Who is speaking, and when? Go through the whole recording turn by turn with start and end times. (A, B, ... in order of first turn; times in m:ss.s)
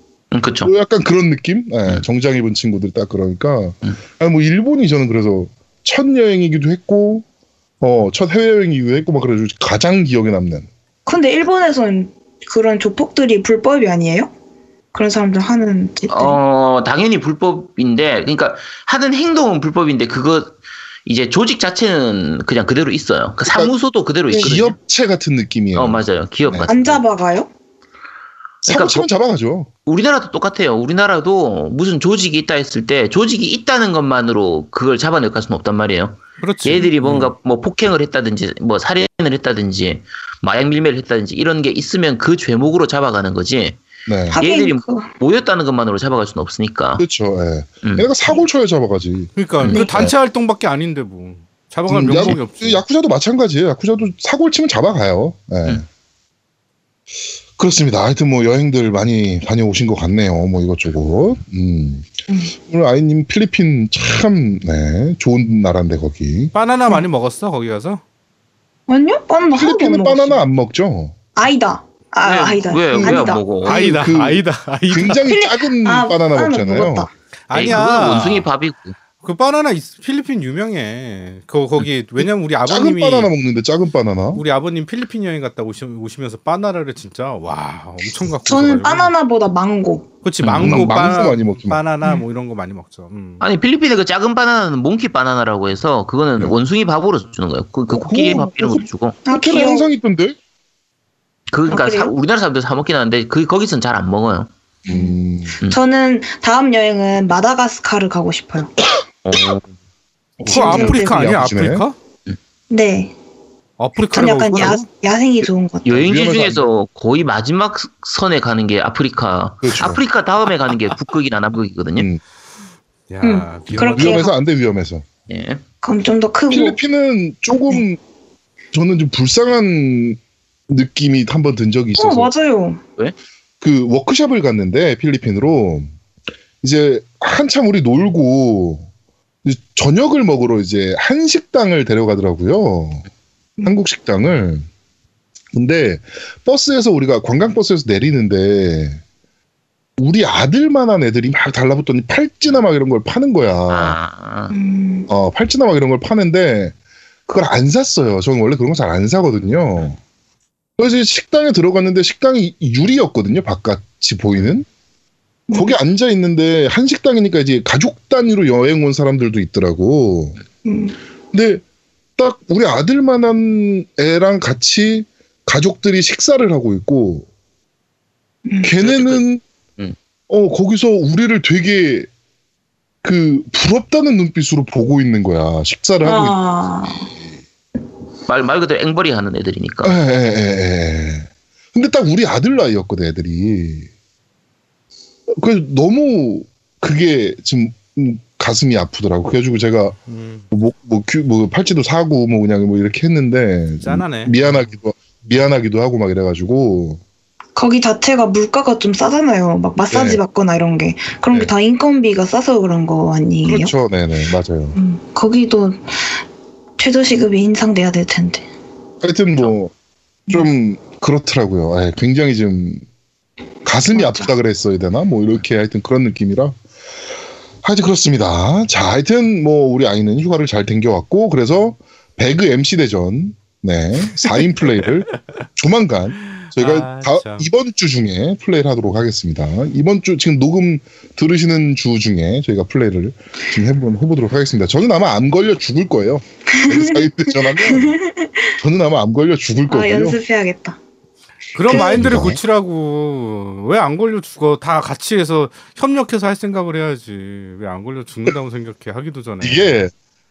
0:00.3-0:00.7 A
0:00.6-0:07.2 B
0:07.8-0:10.7 B
0:11.0-0:14.3 C
0:14.9-0:16.4 C
0:16.1-0:24.8 A
0:24.3-0:26.7 B
0:25.7-0:27.0 A
0:26.7-0:27.5 C
0:28.6-0:29.7 B
0:28.6-0:29.1 A
0:29.8-0:47.0 A
0:36.4-0:37.3 D
0:44.1-0:44.4 B
0:44.3-0:45.1 C
0:47.0-0:50.1 B
0:49.4-0:52.8 D
0:49.6-0:49.8 A
0:49.7-0:50.0 C
0:51.9-0:55.8 B
0:57.6-1:06.5 B
1:02.3-1:02.5 C
1:06.5-1:08.0 D
1:08.9-1:10.4 C
1:09.5-1:11.1 B
1:11.3-1:13.4 C
1:12.2-1:14.0 A
1:12.9-1:17.1 B
1:13.6-1:15.2 D
1:15.2-1:17.1 C
1:17.5-1:18.5 D
1:17.5-1:19.0 A
1:19.2-1:23.3 D
1:22.6-1:24.4 B
1:24.3-1:29.1 D
1:28.4-1:30.0 C
1:30.2-1:33.4 D
1:30.4-1:30.9 A
1:30.6-1:31.8 B
1:33.4-1:39.2 A
1:37.9-1:40.4 B
1:39.2-1:39.9 C
1:41.5-1:44.5 A
1:41.7-1:42.1 C
1:44.8-1:45.6 B
1:44.9-1:48.7 C
1:49.2-1:49.7 A
1:50.4-1:51.8 B
1:50.4-1:52.0 D
1:50.4-1:51.3 C
1:52.7-1:53.1 C
1:53.8-1:54.9 D
1:54.1-1:55.9 C
1:55.8-2:02.1 A
1:55.9-1:56.6 B
1:59.6-2:00.0 B
2:01.9-2:02.2 B
2:03.1-2:04.2 D
2:03.2-2:04.3 C
2:03.9-2:05.0 B
2:05.3-2:05.6 A
2:05.8-2:06.8 C
2:06.5-2:08.0 B
2:08.7-2:12.3 B
2:12.0-2:12.8 C
2:13.6-2:15.9 B
2:16.6-2:18.9 B
2:19.4-2:23.0 B
2:23.6-2:24.7 B
2:25.5-2:29.0 B
2:30.0-2:34.0 B
2:33.7-2:34.5 A
2:34.5-2:35.1 C
2:35.1-2:36.7 B
2:37.3-2:40.0 B
2:40.8-2:44.6 B
2:45.5-2:45.7 C
2:45.5-2:50.4 B
2:50.6-2:50.9 C
2:51.3-2:51.6 B
2:52.2-2:57.3 B
2:58.4-2:58.7 C
2:58.6-2:59.4 B
2:58.8-2:59.2 A
3:00.3-3:02.1 B
3:03.0-3:06.4 B
3:06.0-3:07.1 C
3:08.3-3:09.9 A
3:09.8-3:13.9 B
3:15.3-3:20.0 B
3:20.1-3:20.4 D
3:20.5-3:27.0 B
3:23.8-3:24.7 D
3:27.6-3:33.7 C
3:29.9-3:30.2 B
3:33.4-3:34.8 B
3:34.7-3:35.8 C
3:36.8-3:38.5 C
3:39.0-3:39.7 B
3:40.3-3:42.8 B
3:43.6-3:46.6 B
3:43.9-3:44.3 C
3:47.6-4:08.0 B
3:56.4-3:57.4 D
4:06.5-4:08.5 C
4:08.6-4:10.2 B
4:09.7-4:10.8 C
4:11.5-4:19.8 D
4:11.7-4:12.4 B
4:11.7-4:12.0 C
4:19.4-4:19.9 B